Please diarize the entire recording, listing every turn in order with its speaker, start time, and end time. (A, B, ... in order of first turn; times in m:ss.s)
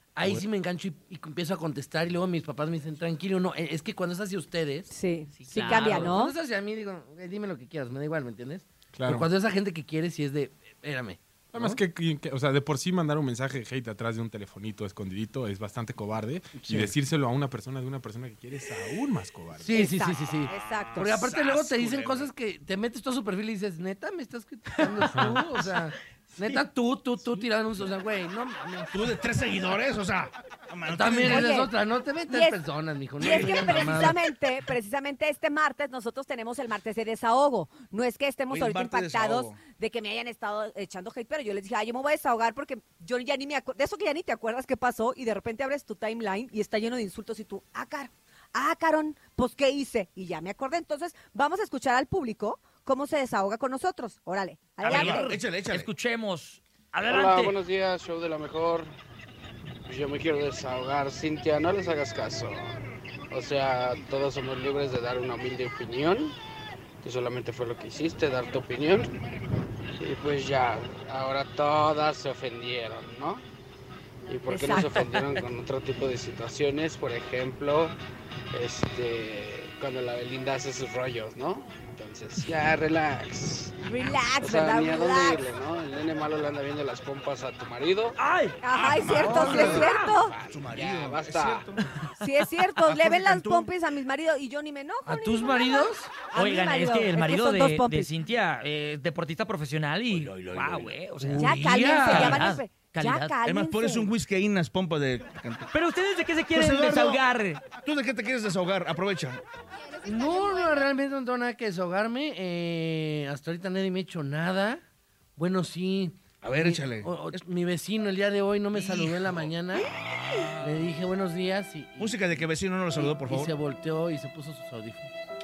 0:00.2-0:04.9 A
0:04.9-0:06.4 B
0:05.4-0:06.1 C
0:05.5-0:11.8 A
0:08.9-0:09.3 D
0:11.5-0:19.8 D
0:16.6-0:16.9 A
0:19.6-0:29.0 A
0:19.7-0:21.3 B
0:20.5-0:22.0 E
0:21.9-0:22.2 D
0:25.1-0:25.4 D
0:28.9-0:31.5 E
0:30.9-0:34.2 A
0:31.2-0:31.7 B
0:32.3-0:32.6 B
0:33.2-0:55.4 B
0:33.2-0:34.1 E
0:38.5-0:39.6 E
0:54.8-0:57.6 C
0:54.9-0:55.9 E
0:57.0-0:58.9 F
0:59.8-1:06.3 F
1:07.0-1:09.1 F
1:10.0-1:13.4 F
1:14.3-1:18.0 F
1:14.5-1:15.1 B
1:18.5-1:23.8 F
1:23.8-1:25.4 B
1:24.4-1:28.2 F
1:28.2-1:28.6 C
1:28.6-1:30.3 B
1:28.7-1:31.8 E
1:29.2-1:29.8 A
1:29.3-1:30.2 C
1:29.4-1:31.7 F
1:32.2-1:38.1 B
1:32.8-1:33.7 E
1:35.0-1:36.1 A
1:36.3-1:43.3 C
1:40.1-1:40.9 E
1:41.2-1:42.4 A
1:41.4-1:44.1 B
1:43.4-1:45.7 E
1:45.7-1:47.6 C
1:46.5-1:47.2 E
1:47.8-1:49.4 E
1:50.0-1:54.8 A
1:55.4-1:59.9 A
1:56.4-1:57.4 E
1:58.7-1:59.4 E
2:00.5-2:05.1 A
2:02.0-2:03.5 E